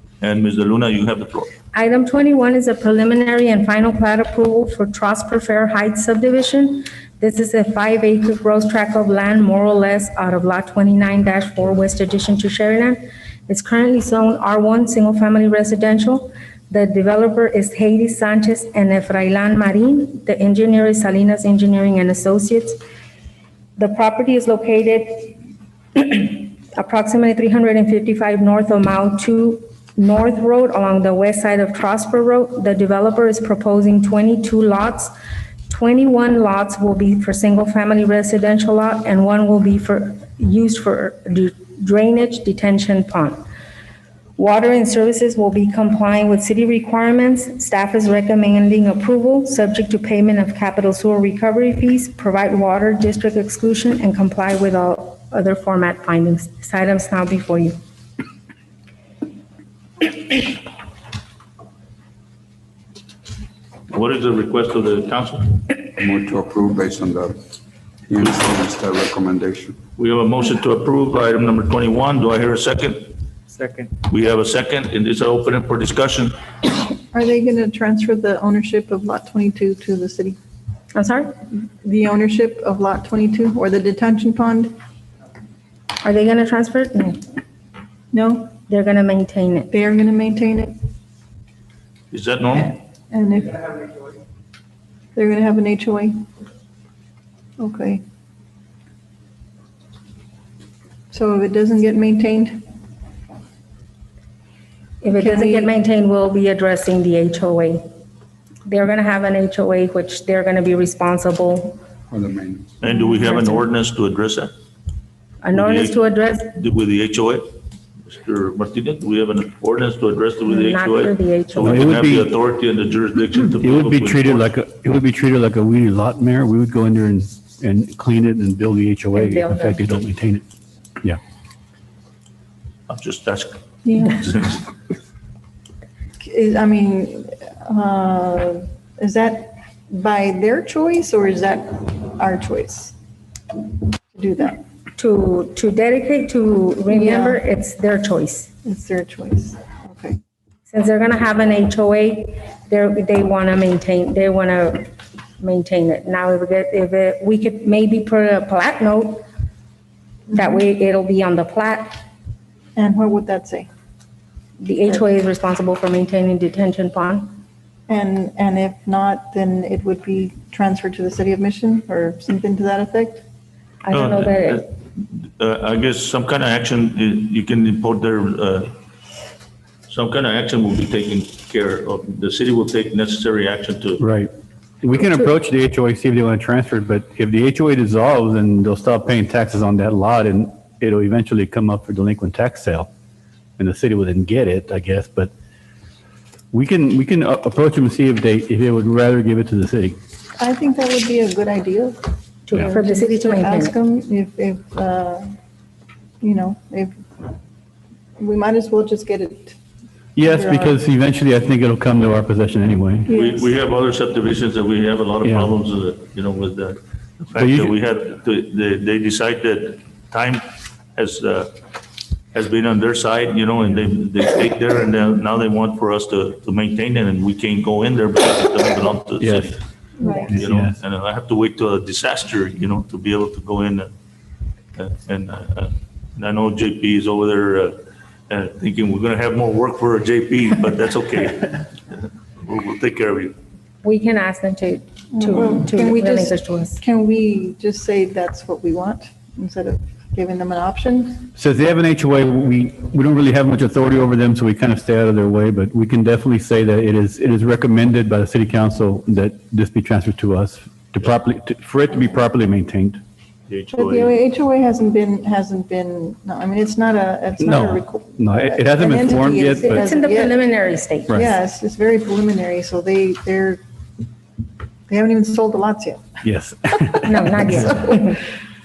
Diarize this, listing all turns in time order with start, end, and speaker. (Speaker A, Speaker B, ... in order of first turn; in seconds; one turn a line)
Speaker A: 0.2-1.5
Speaker B: 1.7-22.8
Speaker B: 23.8-25.4
Speaker B: 25.9-35.1
Speaker B: 35.7-43.4
Speaker B: 44.4-57.7
Speaker A: 63.9-65.6
Speaker C: 66.0-67.4
Speaker C: 68.1-69.8
Speaker A: 70.0-73.1
Speaker A: 74.0-76.4
Speaker D: 77.1-80.4
Speaker B: 80.9-81.3
Speaker D: 81.5-84.7
Speaker B: 86.0-87.2
Speaker D: 88.1-88.5
Speaker B: 88.7-89.7
Speaker D: 89.7-90.7
Speaker A: 92.1-92.8
Speaker D: 93.1-93.8
Speaker D: 95.1-96.2
Speaker D: 97.6-98.0
Speaker D: 101.1-102.6
Speaker B: 105.0-107.8
Speaker D: 105.1-105.7
Speaker B: 108.7-111.8
Speaker C: 112.1-112.7
Speaker A: 112.8-114.5
Speaker B: 113.2-113.6
Speaker B: 115.4-116.5
Speaker A: 115.5-116.0
Speaker A: 116.5-117.5
Speaker A: 118.1-124.5
Speaker B: 120.5-121.9
Speaker E: 121.6-122.3
Speaker E: 123.5-130.4
Speaker B: 129.1-130.0
Speaker A: 132.9-134.7
Speaker D: 136.2-142.9
Speaker D: 144.1-144.6
Speaker B: 145.0-148.5
Speaker D: 146.9-147.4
Speaker D: 148.6-150.2
Speaker B: 150.7-154.9
Speaker B: 155.4-159.2
Speaker B: 160.3-162.0
Speaker D: 162.8-163.7
Speaker B: 164.6-167.4
Speaker D: 167.9-173.2
Speaker B: 173.8-174.7
Speaker A: 173.9-178.7
Speaker A: 179.9-184.0
Speaker E: 184.0-184.3
Speaker E: 184.8-192.9
Speaker E: 193.6-195.3
Speaker E: 196.5-200.0
Speaker D: 200.4-202.0
Speaker B: 202.5-203.8
Speaker D: 202.5-205.3
Speaker D: 206.2-207.0
Speaker D: 208.2-209.6
Speaker E: 210.2-213.1
Speaker D: 210.2-210.8
Speaker D: 213.1-213.4
Speaker A: 213.1-221.5
Speaker E: 215.2-215.5
Speaker E: 217.4-217.7
Speaker A: 222.3-229.6
Speaker E: 229.2-229.5
Speaker D: 230.0-230.3
Speaker E: 230.3-230.8
Speaker A: 230.3-233.9
Speaker A: 234.8-237.8
Speaker A: 238.3-243.3
Speaker B: 243.8-246.8
Speaker D: 245.1-251.3
Speaker E: 251.3-263.0
Speaker A: 263.5-264.1
Speaker D: 263.7-270.4
Speaker E: 267.4-269.9
Speaker B: 269.6-271.2
Speaker D: 271.1-273.6
Speaker D: 274.9-276.0
Speaker E: 276.2-277.7
Speaker B: 277.0-278.2
Speaker D: 277.4-278.0